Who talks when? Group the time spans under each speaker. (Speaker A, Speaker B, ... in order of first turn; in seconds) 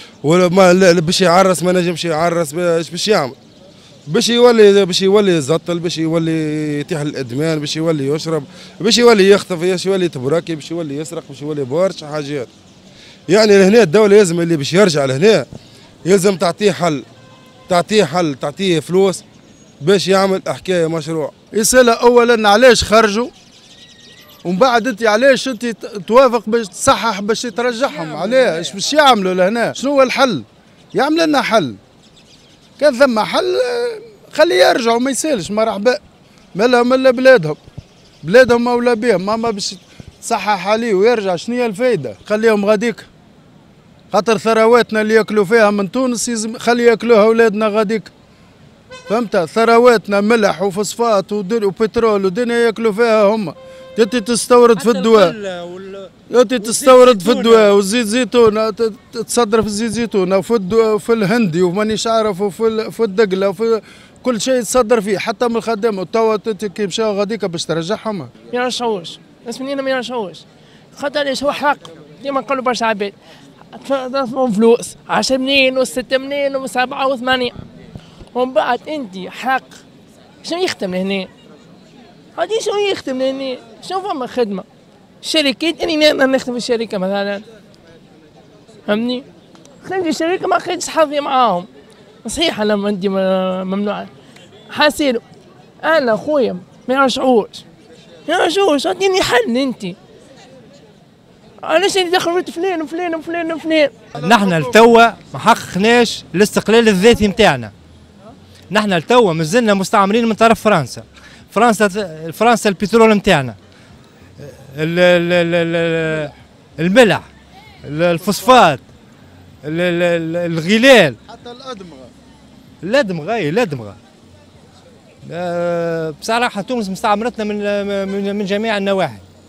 Speaker A: 0.2-3.3, 4.1-12.5, 13.3-15.4, 16.1-17.0, 17.7-19.2, 19.8-21.3
Speaker B: 21.5-23.3, 24.4-31.8, 32.8-36.0, 36.5-37.6, 38.2-43.1, 44.1-48.1, 49.1-55.4, 56.3-68.3, 118.3-118.6, 121.3-122.1
Speaker C: 54.8-57.7, 104.1-107.7, 108.7-113.5, 114.4-117.3, 117.8-118.8, 119.6-121.2, 122.8-124.0, 125.2-129.2
Speaker D: 68.5-70.4, 71.0-73.1, 73.7-77.5, 78.3-79.7, 80.4-81.3, 82.3-84.6, 85.2-87.4, 88.9-89.2, 89.8-91.7, 92.2-94.1, 94.7-95.2, 95.8-97.6, 98.3-100.0, 101.6-104.1